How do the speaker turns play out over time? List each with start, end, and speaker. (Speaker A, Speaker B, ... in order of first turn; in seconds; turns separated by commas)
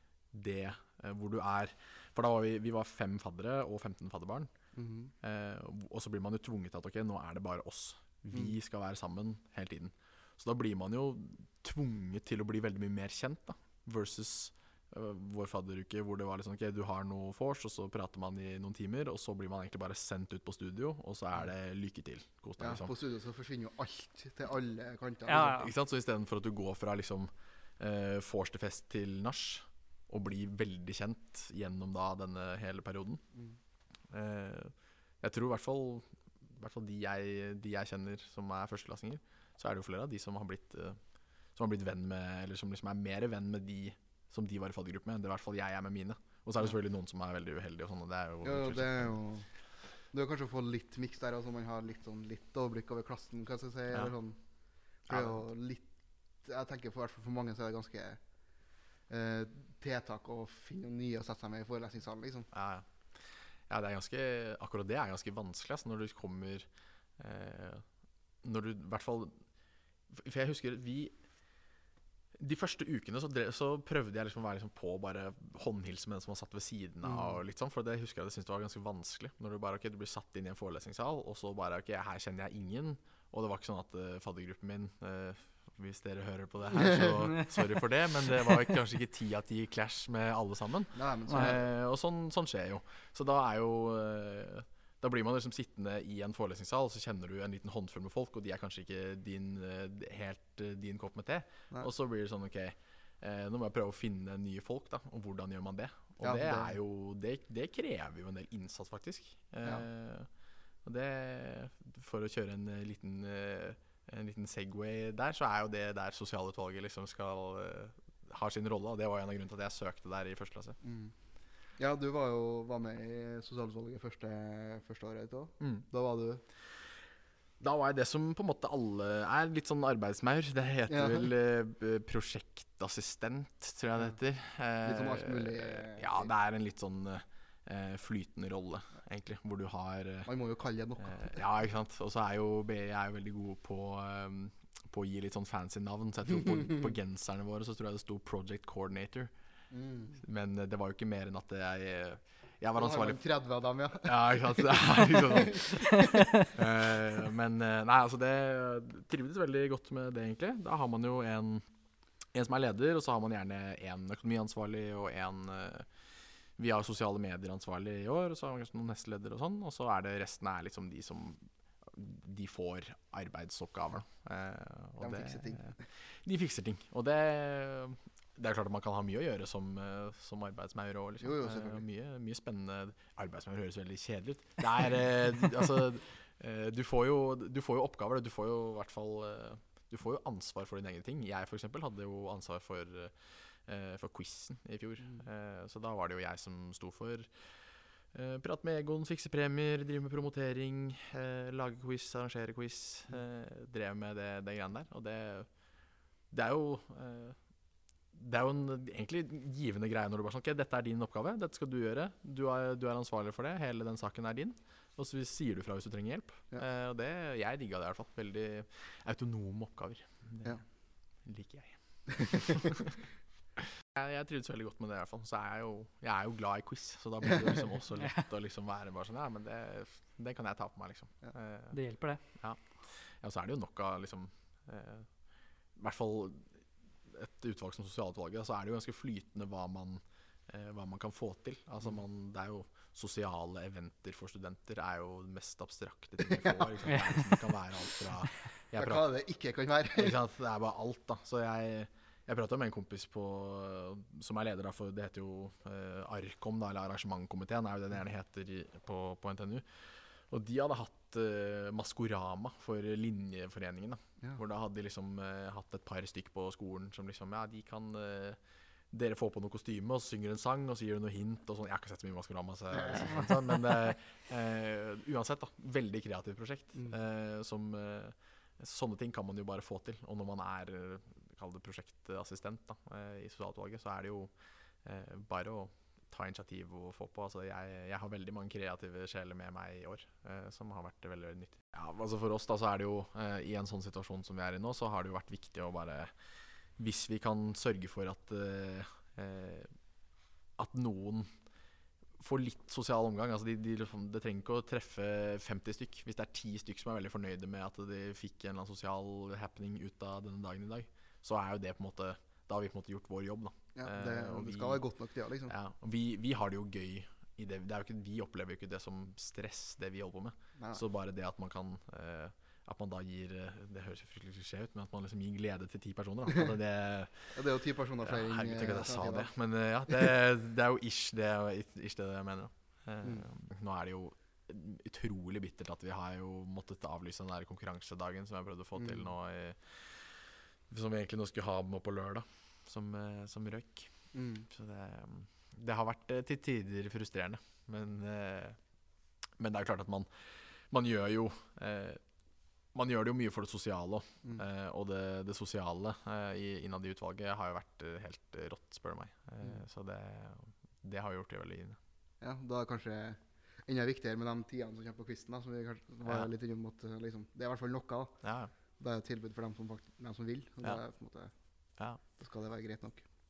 Speaker A: 0.3-4.5, Speaker B: 4.8-5.1, Speaker A: 5.2-22.9, Speaker B: 22.6-25.6, Speaker C: 25.3-25.7, Speaker A: 25.4-33.2, Speaker A: 34.1-49.2, Speaker B: 48.4-54.4, Speaker A: 53.9-54.2, Speaker B: 55.0-55.9, Speaker A: 55.1-55.4, Speaker B: 56.4-58.2, Speaker B: 59.1-62.5, Speaker A: 62.5-67.9, Speaker A: 68.4-69.5, Speaker A: 70.1-71.2, Speaker A: 72.3-120.8, Speaker B: 77.0-77.4, Speaker C: 87.3-87.6, Speaker B: 90.9-91.6, Speaker C: 91.3-91.5, Speaker B: 106.2-106.8, Speaker B: 120.8-121.1, Speaker B: 121.8-126.4, Speaker A: 125.6-125.9, Speaker A: 127.6-140.3, Speaker B: 130.9-131.3, Speaker B: 134.8-136.3, Speaker B: 140.3-141.4, Speaker A: 141.0-149.3, Speaker B: 149.7-150.2, Speaker A: 150.2-153.2, Speaker B: 152.8-155.9, Speaker A: 154.0-161.7, Speaker C: 156.0-156.3, Speaker A: 162.3-166.0, Speaker A: 166.6-205.6, Speaker B: 175.0-175.8, Speaker B: 181.2-181.8, Speaker A: 206.3-207.4, Speaker A: 208.1-223.0, Speaker B: 222.2-222.6, Speaker A: 223.6-231.8, Speaker C: 228.0-228.2, Speaker C: 231.7-232.2, Speaker A: 232.3-235.2, Speaker A: 235.7-249.1, Speaker C: 246.9-247.3, Speaker B: 248.7-250.2, Speaker A: 249.9-268.4, Speaker A: 268.9-299.7, Speaker A: 300.6-301.3, Speaker A: 302.2-314.9, Speaker B: 313.8-315.5, Speaker A: 315.5-348.7, Speaker B: 320.6-320.8, Speaker B: 327.3-329.3, Speaker B: 333.0-333.3, Speaker B: 338.8-339.1, Speaker B: 344.1-344.5, Speaker A: 349.4-352.0, Speaker A: 352.7-361.8, Speaker B: 362.2-371.4, Speaker A: 366.1-366.3, Speaker A: 368.2-368.5, Speaker B: 372.0-373.1